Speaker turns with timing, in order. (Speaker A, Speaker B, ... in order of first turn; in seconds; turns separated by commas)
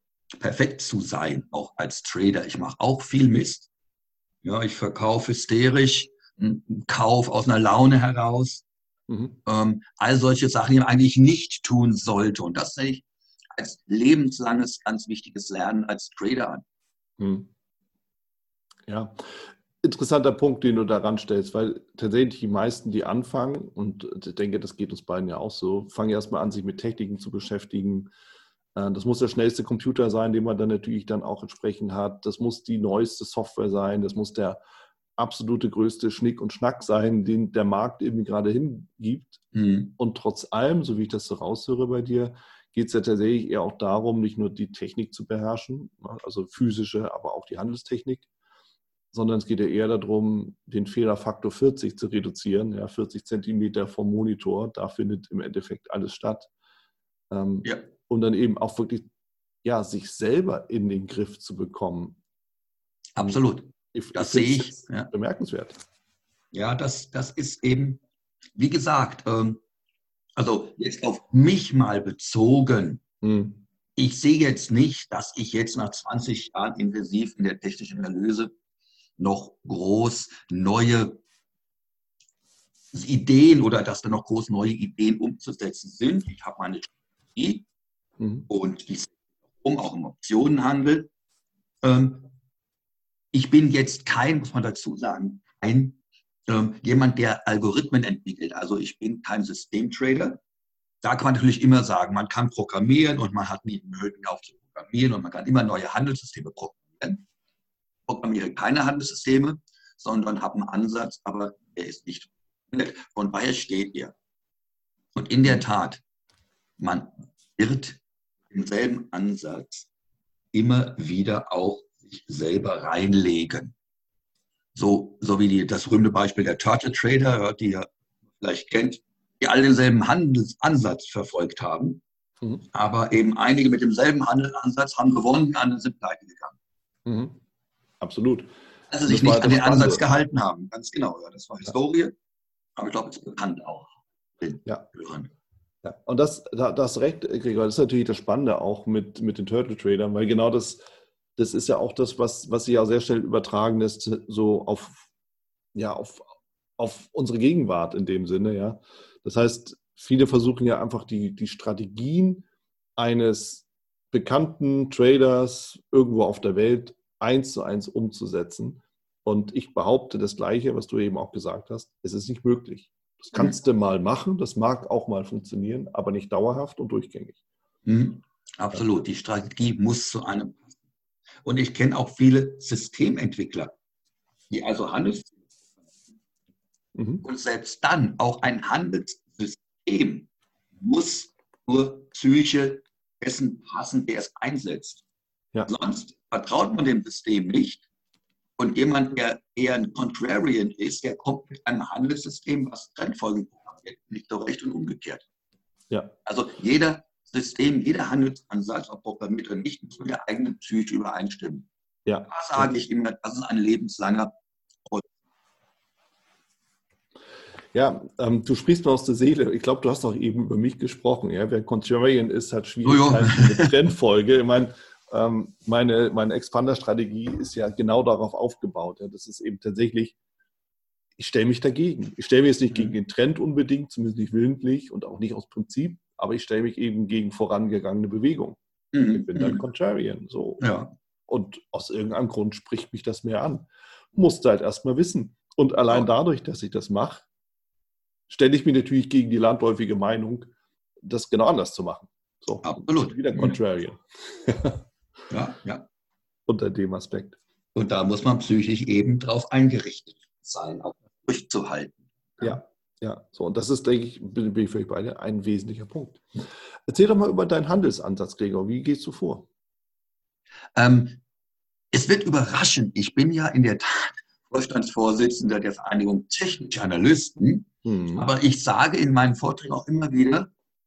Speaker A: 0.4-3.7, Speaker A: 4.4-8.6, Speaker B: 9.1-9.4, Speaker A: 9.4-16.6, Speaker B: 17.2-17.5, Speaker B: 18.9-28.1, Speaker B: 28.7-34.6, Speaker B: 35.2-39.4, Speaker A: 39.5-39.9, Speaker B: 40.0-48.3, Speaker B: 49.1-56.5, Speaker B: 57.3-59.1, Speaker B: 59.6-62.2, Speaker A: 63.1-65.1, Speaker B: 63.9-65.8, Speaker A: 66.5-68.0, Speaker A: 68.5-69.6, Speaker A: 70.3-73.0, Speaker B: 73.2-73.6, Speaker A: 74.0-78.5, Speaker A: 79.2-81.2, Speaker A: 82.9-87.7, Speaker B: 88.2-88.5, Speaker A: 88.5-91.1, Speaker A: 91.8-92.3, Speaker A: 93.3-100.4, Speaker A: 101.0-107.2, Speaker A: 108.1-114.1, Speaker A: 115.1-116.0, Speaker A: 116.8-119.9, Speaker A: 120.5-123.7, Speaker A: 124.7-127.9, Speaker A: 128.4-132.0, Speaker A: 132.7-136.6, Speaker B: 137.1-137.4, Speaker B: 138.0-138.5, Speaker A: 138.9-142.1, Speaker B: 139.1-140.0, Speaker A: 142.8-145.3, Speaker B: 145.8-150.8, Speaker B: 151.4-155.1, Speaker B: 155.7-162.4, Speaker B: 163.0-177.4, Speaker A: 177.8-180.7, Speaker A: 181.4-183.7, Speaker A: 184.5-185.3, Speaker B: 186.9-187.2, Speaker A: 187.2-190.3, Speaker A: 190.8-195.0, Speaker A: 195.7-197.8, Speaker A: 198.6-205.2, Speaker A: 206.2-211.7, Speaker B: 212.1-212.7, Speaker A: 212.3-214.3, Speaker B: 217.7-230.1, Speaker A: 222.8-223.7, Speaker B: 231.2-240.7, Speaker A: 238.9-239.6, Speaker A: 240.6-240.9, Speaker B: 241.3-247.2, Speaker B: 248.3-250.5, Speaker B: 251.0-254.8, Speaker A: 252.6-253.6, Speaker A: 255.3-255.8, Speaker B: 256.5-257.4, Speaker A: 257.7-262.6, Speaker B: 262.4-266.2, Speaker B: 266.9-269.5, Speaker A: 270.7-271.2, Speaker A: 271.9-280.5, Speaker B: 277.8-278.3